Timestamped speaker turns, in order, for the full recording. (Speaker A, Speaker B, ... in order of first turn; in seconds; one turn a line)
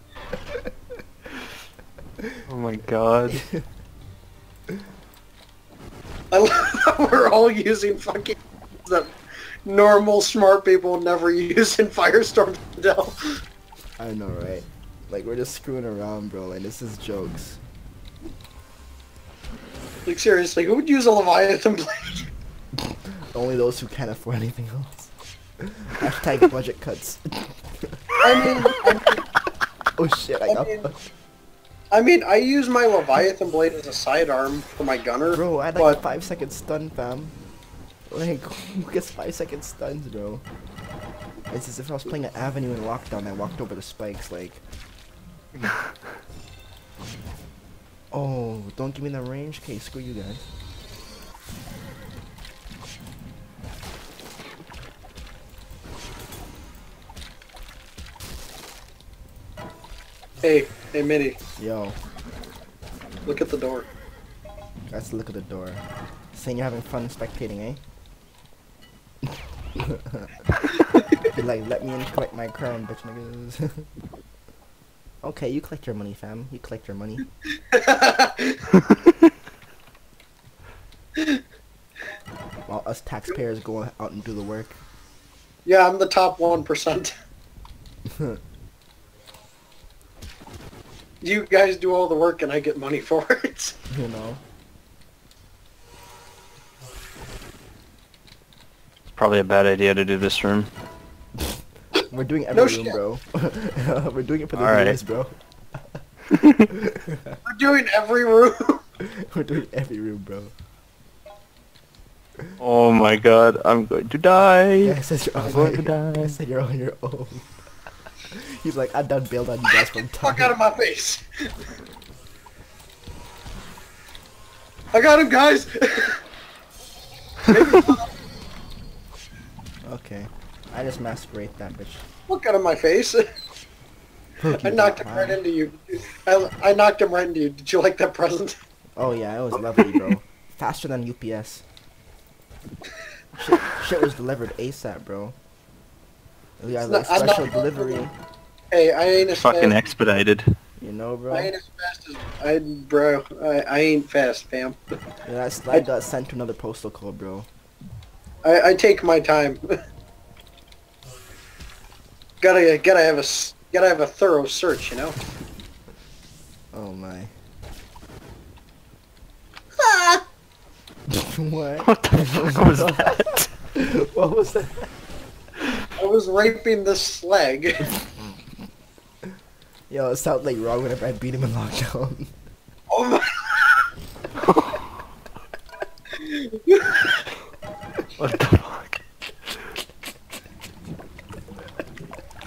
Speaker A: 2.5-3.4
Speaker B: 3.3-3.6
Speaker C: 6.3-9.1
Speaker C: 9.7-13.4
Speaker B: 14.0-17.6
Speaker C: 20.1-22.3
Speaker B: 22.9-28.5
Speaker C: 28.2-29.2
Speaker B: 30.0-31.0
Speaker C: 30.5-30.9
Speaker C: 31.9-36.0
Speaker B: 35.3-37.4
Speaker B: 38.1-40.4
Speaker B: 41.5-44.6
Speaker A: 45.5-46.1
Speaker B: 48.1-50.5
Speaker C: 60.4-61.4
Speaker B: 61.6-62.0
Speaker C: 63.3-63.9
Speaker B: 64.9-65.8
Speaker B: 66.3-67.8
Speaker B: 69.8-70.3
Speaker B: 71.2-73.9
Speaker B: 75.2-77.2
Speaker C: 77.7-78.7
Speaker A: 78.7-79.3
Speaker C: 81.2-81.4
Speaker B: 82.7-84.8
Speaker C: 85.7-87.1
Speaker B: 88.1-88.4
Speaker C: 91.2-93.8
Speaker B: 93.9-94.4
Speaker A: 99.2-100.7
Speaker B: 101.4-106.0
Speaker C: 102.5-103.0
Speaker A: 104.6-105.0
Speaker A: 106.3-106.7
Speaker B: 106.7-107.4
Speaker C: 107.5-108.8
Speaker B: 109.0-110.5
Speaker A: 112.6-116.3
Speaker B: 114.8-117.5
Speaker B: 118.3-120.5
Speaker C: 120.2-121.5
Speaker C: 124.9-126.2
Speaker C: 127.5-128.1
Speaker B: 129.8-132.1
Speaker C: 132.3-133.3
Speaker B: 134.4-135.4
Speaker C: 134.6-138.6
Speaker B: 139.0-141.6
Speaker B: 143.4-145.4
Speaker B: 146.6-148.1
Speaker C: 146.8-148.1
Speaker C: 148.7-149.8
Speaker A: 149.3-150.6
Speaker B: 150.8-151.5
Speaker C: 151.3-154.8
Speaker B: 155.2-157.5
Speaker C: 158.4-159.7
Speaker C: 162.4-165.2
Speaker B: 166.7-167.3
Speaker C: 169.8-170.2
Speaker B: 171.1-174.9
Speaker A: 171.8-173.5
Speaker C: 176.0-177.9
Speaker B: 179.9-182.3
Speaker C: 182.9-183.9
Speaker A: 184.4-184.9
Speaker C: 186.1-187.3
Speaker A: 188.2-189.6